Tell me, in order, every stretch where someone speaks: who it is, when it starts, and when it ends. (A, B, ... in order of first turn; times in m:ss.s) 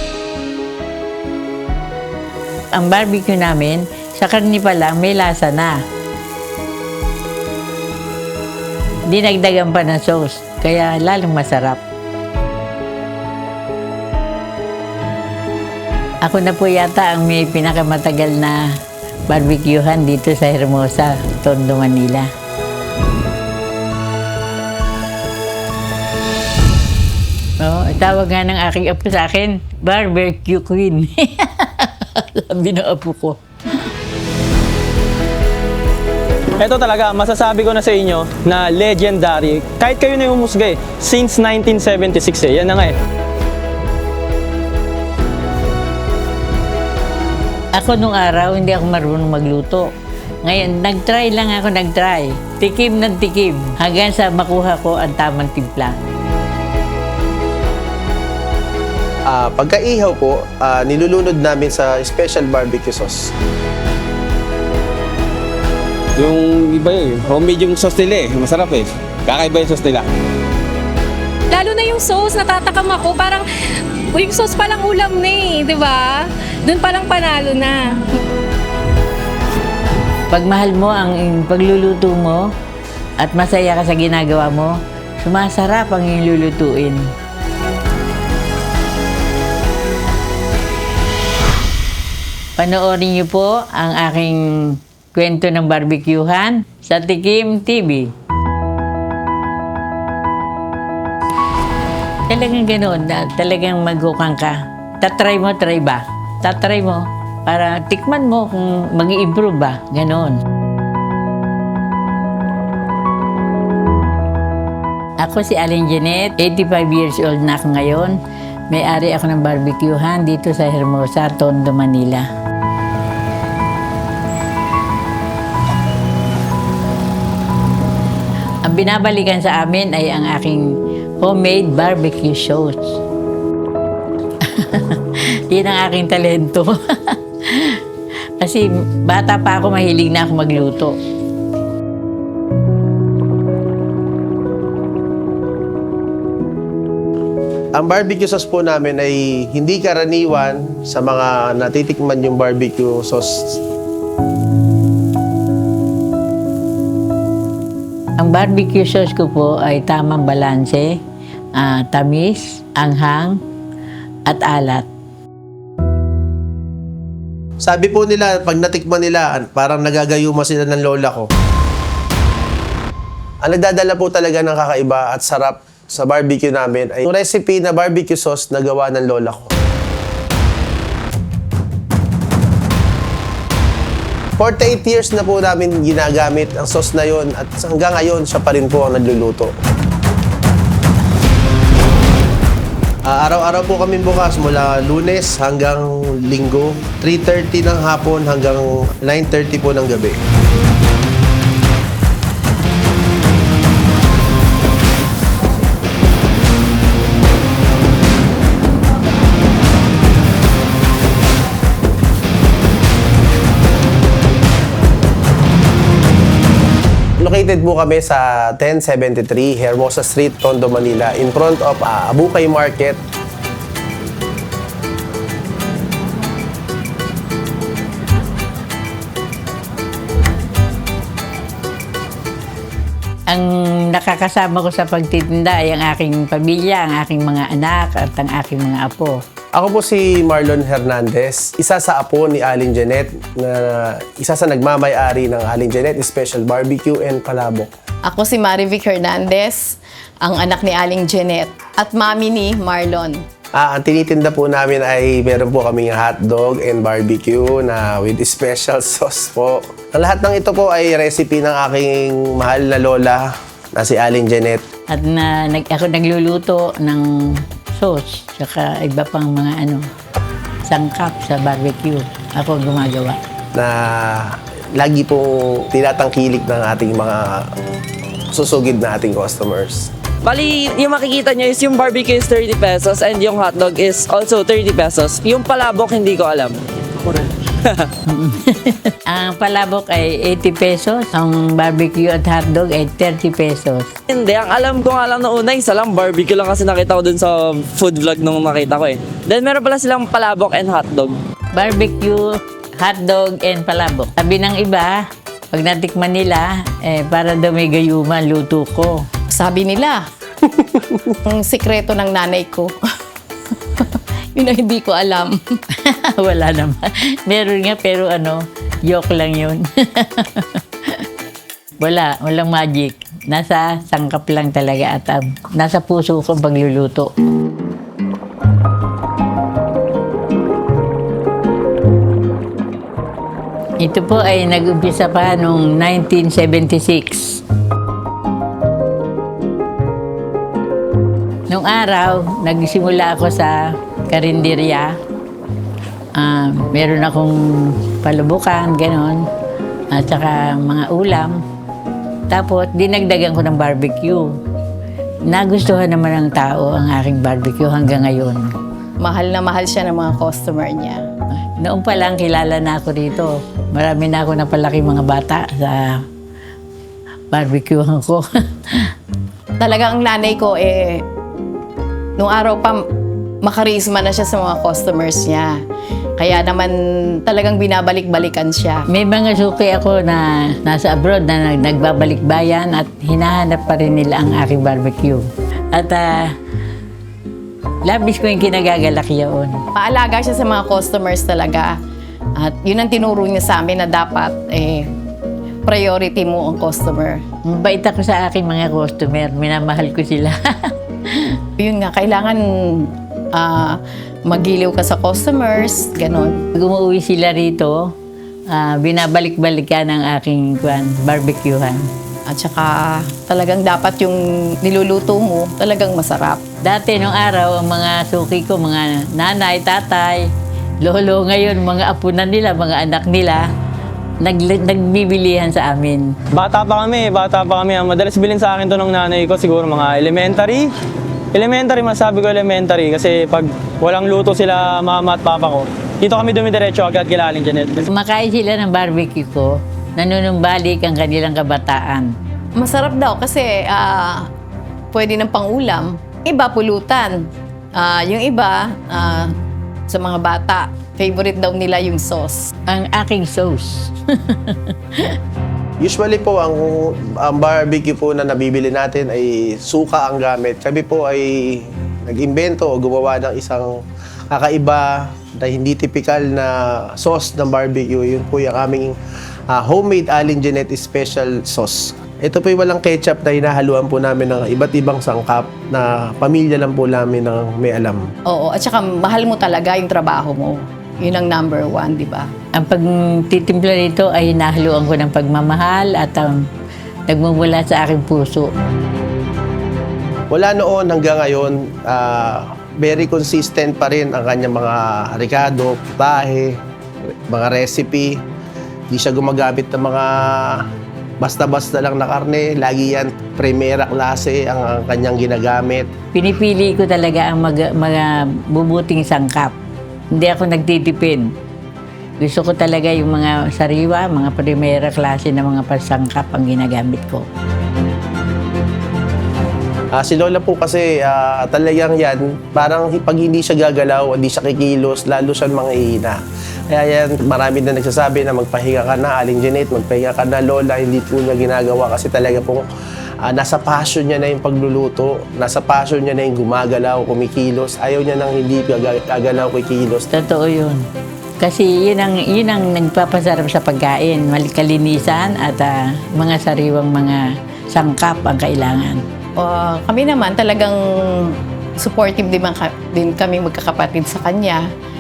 0:02.7-0:05.8 A
0:09.1-0:11.8 A
0:16.2-0:18.7 A
0:19.3-0:22.3 A
0:27.6-0:33.4 A
0:36.6-0:43.0 B
0:47.7-0:49.9 A
0:50.4-0:56.0 A
0:59.3-1:03.3 C
1:06.2-1:10.1 D
1:11.5-1:13.5 E
1:14.1-1:17.9 E
1:20.3-1:22.5 A
1:23.2-1:27.1 A
1:32.6-1:38.1 A
1:42.3-1:50.4 A
1:55.2-1:58.2 A
1:58.7-2:02.3 A
2:08.6-2:10.7 A
2:11.2-2:13.0 A
2:14.5-2:17.8 A
2:18.4-2:21.0 A
2:27.8-2:33.6 C
2:38.2-2:41.0 A
2:41.6-2:43.4 A
2:44.3-2:44.9 A
2:47.6-2:51.3 C
2:53.4-2:59.5 C
3:04.4-3:09.5 C
3:13.1-3:20.2 C
3:37.2-3:43.0 C
3:53.3-3:59.2 A
3:59.6-4:07.7 C
4:08.1-4:13.2 F
4:13.6-4:24.6 C
4:24.9-4:29.9 A
4:30.7-4:33.2 A
4:33.6-4:37.4 C
4:38.3-4:39.9 C
4:40.2-4:46.6 G
4:48.1-4:53.9 A
4:54.1-5:01.2 G
5:01.5-5:09.0 A
5:09.3-5:10.0 F
5:10.6-5:11.0 C
5:11.2-5:12.7 F
5:13.8-5:15.6 F
5:15.8-5:21.0 A
5:21.8-5:27.1 A
5:33.8-5:37.4 A
5:41.5-5:45.0 A
5:46.2-5:49.2 A
5:49.9-5:51.4 A
5:52.3-5:54.4 A
5:55.3-5:58.5 A
5:59.0-6:01.0 F
6:01.3-6:06.0 A
6:07.3-6:08.9 A
6:09.6-6:11.0 F
6:12.2-6:12.8 F
6:13.4-6:15.6 F
6:16.2-6:18.8 F
6:18.9-6:26.3 A
6:27.8-6:29.6 A
6:29.8-6:31.8 F
6:32.4-6:34.9 F
6:35.6-6:37.2 F
6:37.4-6:41.4 A
6:41.6-6:46.4 F
6:46.6-6:47.9 A
6:48.5-6:51.9 A
6:52.3-6:56.4 F
6:56.6-7:00.3 A
7:00.8-7:03.5 A
7:04.2-7:06.1 A
7:06.4-7:10.7 B
7:11.3-7:17.9 B
7:17.9-7:22.1 A
7:22.6-7:24.3 F
7:24.9-7:27.2 F
7:27.8-7:29.3 F
7:29.9-7:32.5 F
7:32.7-7:35.1 A
7:35.8-7:49.0 C
7:49.5-7:58.1 C
7:58.3-8:02.3 F
8:02.6-8:06.4 A
8:07.1-8:08.5 A
8:10.3-8:16.6 C
8:17.3-8:18.2 C
8:18.9-8:20.6 C
8:21.2-8:25.9 C
8:26.1-8:29.6 A
8:30.1-8:31.3 A
8:32.2-8:37.3 A
8:39.9-8:52.6 C
8:53.2-9:00.1 C
9:00.1-9:00.8 A
9:01.4-9:09.0 A
9:09.4-9:14.6 F